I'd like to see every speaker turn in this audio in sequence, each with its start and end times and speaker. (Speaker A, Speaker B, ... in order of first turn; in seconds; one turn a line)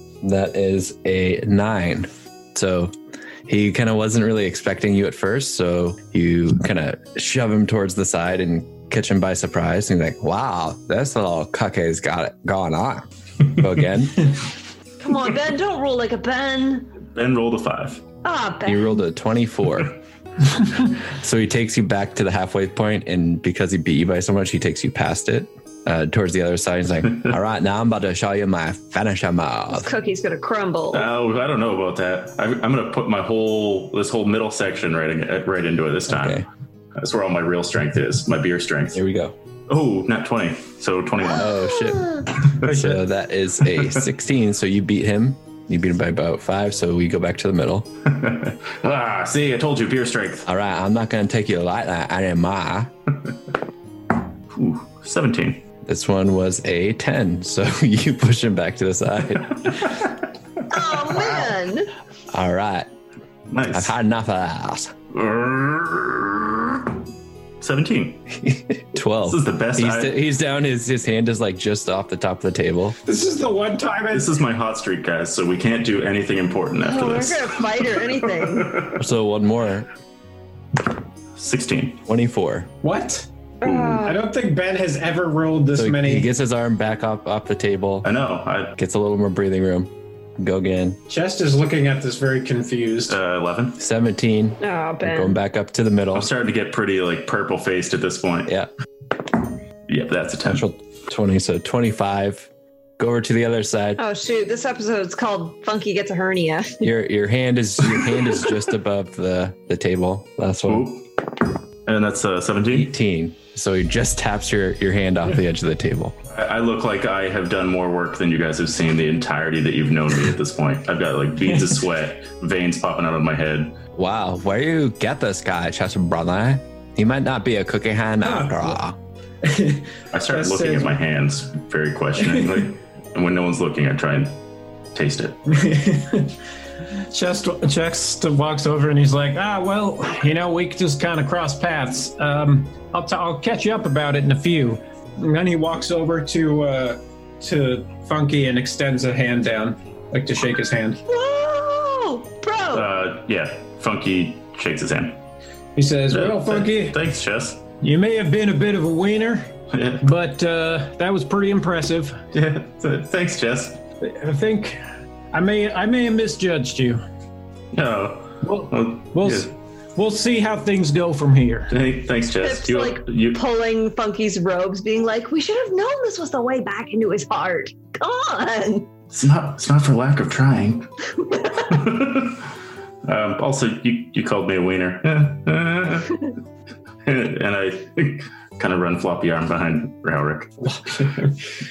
Speaker A: 0.2-2.9
Speaker A: 3.5-14.3
Speaker B: 15.0-16.9
Speaker C: 17.1-18.0
Speaker B: 18.2-19.0
Speaker A: 18.6-19.9
Speaker A: 21.2-29.9
Speaker B: 29.7-31.1
Speaker C: 30.9-36.4
Speaker A: 36.1-36.5
Speaker C: 36.9-39.0
Speaker A: 38.9-39.3
Speaker C: 39.7-41.7
Speaker A: 41.3-47.9
Speaker C: 48.0-50.5
Speaker A: 50.5-52.9
Speaker C: 54.5-55.6
Speaker A: 55.8-59.9
Speaker C: 59.8-60.1
Speaker B: 60.7-61.9
Speaker A: 62.3-62.9
Speaker C: 63.5-64.0
Speaker A: 63.7-64.9
Speaker C: 65.1-67.0
Speaker C: 67.6-68.2
Speaker A: 68.4-73.0
Speaker C: 69.2-70.2
Speaker D: 73.0-74.3
Speaker C: 74.1-79.0
Speaker B: 76.8-78.9
Speaker A: 79.0-79.9
Speaker C: 81.3-82.0
Speaker A: 82.0-82.7
Speaker D: 82.8-83.3
Speaker B: 83.6-84.2
Speaker C: 83.6-84.0
Speaker D: 84.0-86.3
Speaker A: 85.7-88.1
Speaker C: 88.0-88.8
Speaker A: 88.8-91.0
Speaker D: 91.1-93.2
Speaker C: 93.1-93.8
Speaker A: 93.8-96.3
Speaker B: 94.6-95.3
Speaker C: 96.1-98.5
Speaker C: 99.9-100.6
Speaker A: 100.5-104.0
Speaker B: 104.0-106.8
Speaker A: 106.8-110.9
Speaker C: 110.7-111.0
Speaker C: 111.8-112.9
Speaker A: 112.7-116.1
Speaker C: 116.3-123.7
Speaker A: 124.0-129.0
Speaker D: 128.2-128.7
Speaker D: 129.4-130.9
Speaker C: 130.1-134.4
Speaker D: 132.2-132.6
Speaker C: 134.9-135.4
Speaker D: 135.4-136.3
Speaker D: 137.1-151.0
Speaker B: 151.1-152.9
Speaker C: 152.7-155.2
Speaker D: 155.7-157.0
Speaker C: 156.1-157.6
Speaker D: 157.8-162.2
Speaker C: 159.7-160.0
Speaker C: 162.3-163.8
Speaker D: 164.0-164.8
Speaker D: 165.3-167.0
Speaker C: 167.7-169.5
Speaker D: 168.4-171.7
Speaker C: 171.7-173.4
Speaker B: 172.4-178.9
Speaker C: 179.1-180.9
Speaker C: 181.6-182.5
Speaker C: 183.0-186.2
Speaker C: 187.0-190.5
Speaker D: 190.8-191.3